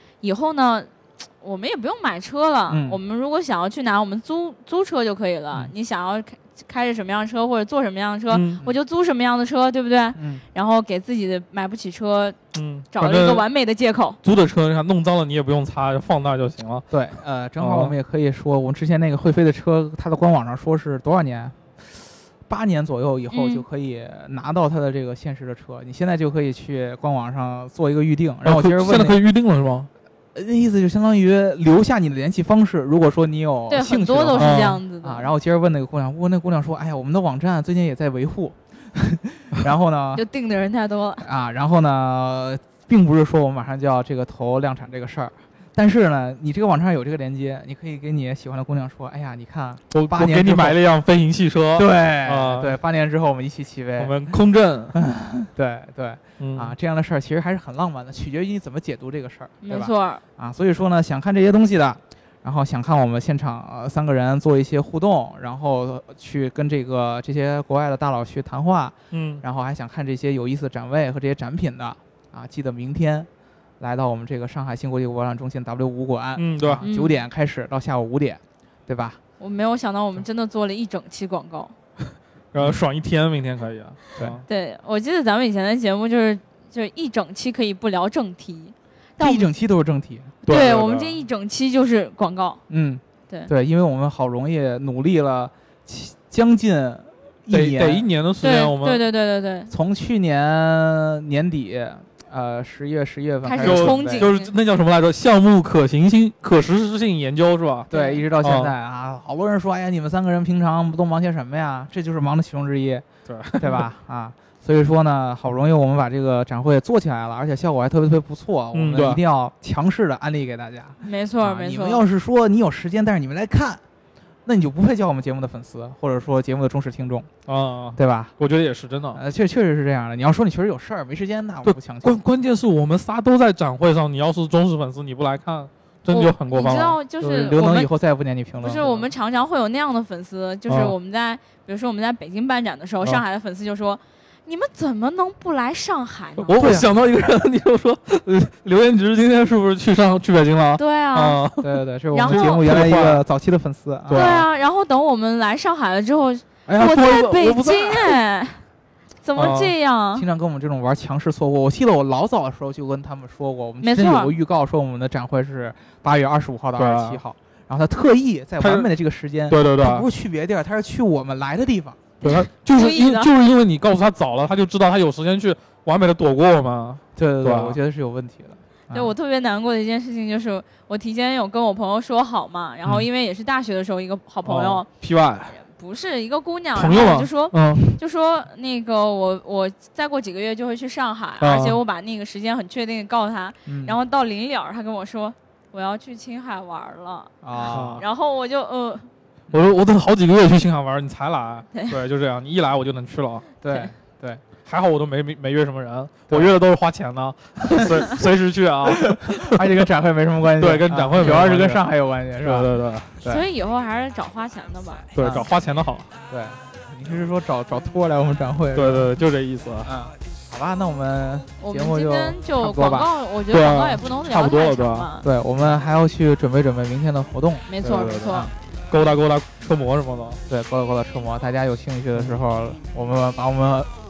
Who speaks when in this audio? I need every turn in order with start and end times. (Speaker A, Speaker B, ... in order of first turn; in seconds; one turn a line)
Speaker A: 0.2-12.4
Speaker B: 2.7-3.0
Speaker C: 8.3-8.6
Speaker B: 10.2-10.4
Speaker C: 12.5-13.5
Speaker A: 12.9-14.2
Speaker C: 14.2-16.9
Speaker B: 16.9-29.2
Speaker C: 17.6-17.9
Speaker A: 23.3-23.6
Speaker C: 28.4-29.9
Speaker B: 30.4-40.2
Speaker A: 33.7-35.3
Speaker C: 34.4-34.8
Speaker A: 40.1-41.3
Speaker B: 41.2-50.8
Speaker C: 49.9-52.8
Speaker B: 51.8-54.2
Speaker C: 54.0-55.0
Speaker B: 55.0-73.3
Speaker C: 56.4-56.7
Speaker A: 59.6-60.2
Speaker C: 69.1-69.4
Speaker B: 73.8-79.2
Speaker C: 76.4-76.9
Speaker A: 76.8-77.2
Speaker A: 79.4-81.7
Speaker C: 82.5-84.4
Speaker A: 84.5-89.5
Speaker B: 89.2-90.4
Speaker A: 90.4-92.6
Speaker C: 90.5-91.2
Speaker B: 92.7-98.1
Speaker C: 97.5-99.0
Speaker A: 98.4-99.7
Speaker B: 99.7-104.3
Speaker A: 103.4-104.5
Speaker C: 103.6-107.9
Speaker A: 107.9-108.2
Speaker B: 107.9-113.0
Speaker C: 108.4-108.7
Speaker C: 113.3-113.9
Speaker B: 113.6-123.8
Speaker C: 118.7-119.2
Speaker A: 121.0-122.0
Speaker B: 124.5-127.3
Speaker C: 127.5-129.2
Speaker B: 128.0-128.3
Speaker B: 129.1-132.2
Speaker C: 131.6-137.0
Speaker A: 136.1-137.9
Speaker B: 137.2-139.0
Speaker A: 138.6-146.6
Speaker C: 140.7-140.9
Speaker C: 146.5-153.2
Speaker B: 146.5-146.9
Speaker A: 150.8-151.4
Speaker B: 151.6-154.3
Speaker A: 152.1-152.6
Speaker C: 154.1-154.5
Speaker A: 154.1-158.6
Speaker C: 156.7-158.2
Speaker A: 159.2-160.3
Speaker C: 159.4-159.7
Speaker B: 160.2-172.2
Speaker A: 163.8-164.3
Speaker C: 166.8-167.2
Speaker C: 168.6-168.9
Speaker C: 169.5-170.1
Speaker C: 172.2-177.8
Speaker A: 172.2-173.3
Speaker B: 177.2-179.1
Speaker A: 178.9-184.9
Speaker C: 184.4-185.6
Speaker A: 185.5-199.1
Speaker C: 186.8-188.0
Speaker C: 191.4-191.8
Speaker B: 193.7-193.9
Speaker B: 197.4-198.0
Speaker C: 197.7-198.1
Speaker C: 199.5-203.5
Speaker B: 203.6-204.4
Speaker C: 204.7-209.9
Speaker B: 206.3-206.5
Speaker B: 209.1-212.7
Speaker C: 210.6-211.9
Speaker C: 212.4-213.2
Speaker A: 213.2-215.1
Speaker C: 215.2-216.1
Speaker B: 215.2-215.5
Speaker B: 216.3-219.2
Speaker C: 218.7-219.9
Speaker B: 219.8-223.1
Speaker A: 221.6-225.3
Speaker C: 223.5-225.1
Speaker B: 225.2-228.5
Speaker A: 227.7-228.5
Speaker C: 227.8-230.4
Speaker B: 230.5-233.9